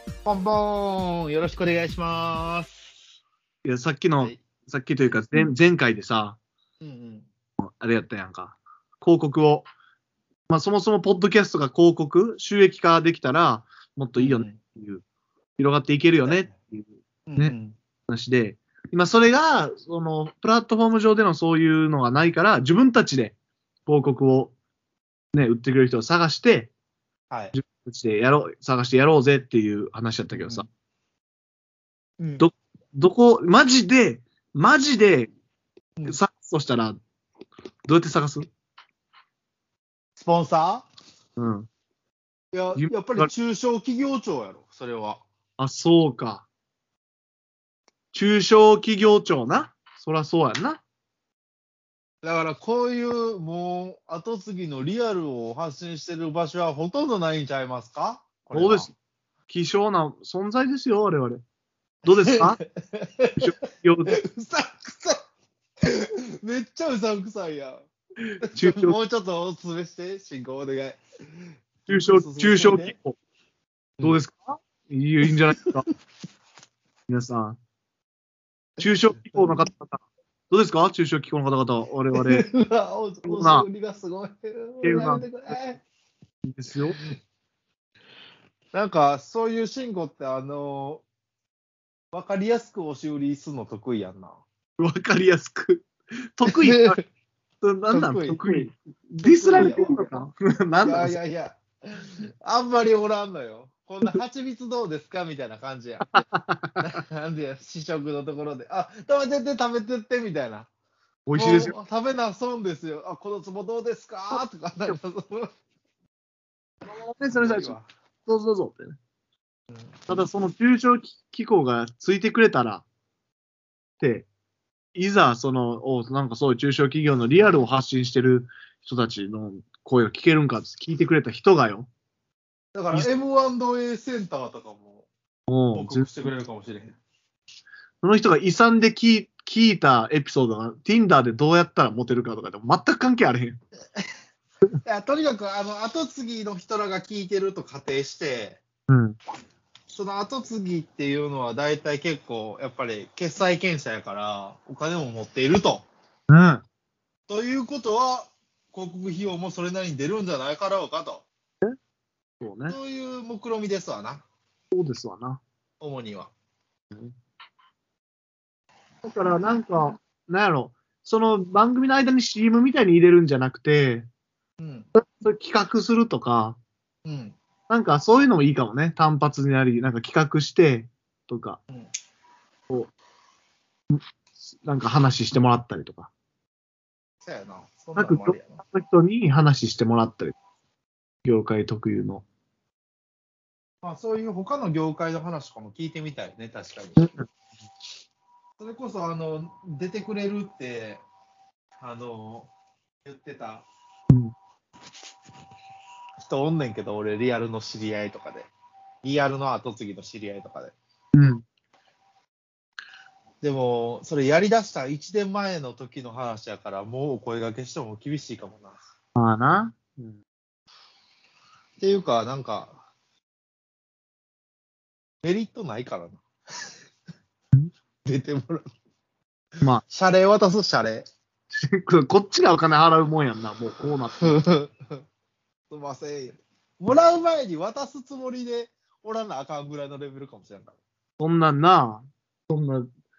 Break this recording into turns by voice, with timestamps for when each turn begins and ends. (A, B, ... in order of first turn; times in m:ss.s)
0:00.2-0:02.8 A
0:03.6-0:06.4 B
0:06.8-0:07.3 A
0:07.6-0:09.7 B
0:10.5-0:15.0 B
0:14.2-0:14.6 A
0:15.6-0:17.6 B
0:16.2-0:16.5 A
0:17.3-0:17.8 A
0:18.1-0:24.5 B
0:25.3-0:26.7 B
0:27.5-0:30.7 B
0:30.3-0:30.6 A
0:32.2-0:32.5 A
0:32.4-0:35.3 B
0:36.1-0:37.0 B
0:37.9-0:38.5 B
0:40.2-0:40.9 A
0:41.4-0:41.7 B
0:42.5-0:45.2 A
0:42.8-0:43.3 B
0:45.6-0:46.5 B
0:48.1-0:50.8 B
0:52.2-0:58.9 A
0:58.5-0:58.9 B
0:59.5-1:01.4 B
1:02.0-1:02.6 B
1:02.3-1:03.6 A
1:03.4-1:04.2 B
1:04.2-1:05.2 A
1:05.8-1:07.8 A
1:08.4-1:11.0 A
1:08.5-1:09.0 B
1:11.9-1:13.2 B
1:12.0-1:12.9 A
1:14.0-1:15.8 B
1:17.1-1:17.6 B
1:18.8-1:22.4 B
1:18.8-1:19.6 A
1:22.2-1:25.8 A
1:23.2-1:23.7 B
1:24.8-1:25.3 B
1:26.5-1:27.0 B
1:28.7-1:31.0 A
1:32.1-1:34.4 A
1:34.8-1:37.0 B
1:36.5-1:37.0 A
1:37.6-1:41.2 B
1:37.9-1:38.7 A
1:39.2-1:40.1 A
1:40.8-1:46.1 A
1:46.1-1:46.8 B
1:46.8-1:50.7 A
1:51.3-1:51.7 B
1:51.4-1:55.5 A
1:54.3-1:55.0 B
1:56.9-1:57.8 B
1:57.4-1:57.9 A
1:58.3-1:59.0 B
2:00.1-2:02.8 B
2:04.0-2:04.3 B
2:05.0-2:11.9 B
2:12.8-2:15.1 A
2:15.5-2:16.1 B
2:15.7-2:17.0 A
2:18.0-2:23.6 B
2:24.8-2:28.6 A
2:28.9-2:29.2 B
2:29.9-2:35.9 A
2:36.3-2:36.6 B
2:37.3-2:41.3 A
2:42.4-2:42.8 B
2:42.7-2:44.2 A
2:44.7-2:45.4 B
2:45.8-2:46.3 A
2:49.0-2:54.1 B
2:54.6-2:54.9 A
2:55.0-2:56.6 B
2:57.0-2:57.4 A
2:57.7-3:01.6 B
3:04.6-3:06.1 B
3:07.2-3:08.6 A
3:08.0-3:10.4 B
3:11.2-3:12.2 B
3:13.8-3:17.1 A
3:17.0-3:17.2 B
3:18.6-3:21.0 A
3:21.8-3:22.5 A
3:23.0-3:23.7 A
3:26.2-3:28.5 A
3:29.0-3:30.8 A
3:31.2-3:31.4 B
3:33.4-3:38.8 A
3:39.2-3:40.2 B
3:41.8-3:42.8 A
3:45.2-3:46.2 A
3:48.0-3:48.7 A
3:49.9-3:51.1 A
3:51.7-3:54.4 B
3:54.2-3:55.0 A
3:55.7-4:00.8 A
4:01.2-4:02.9 B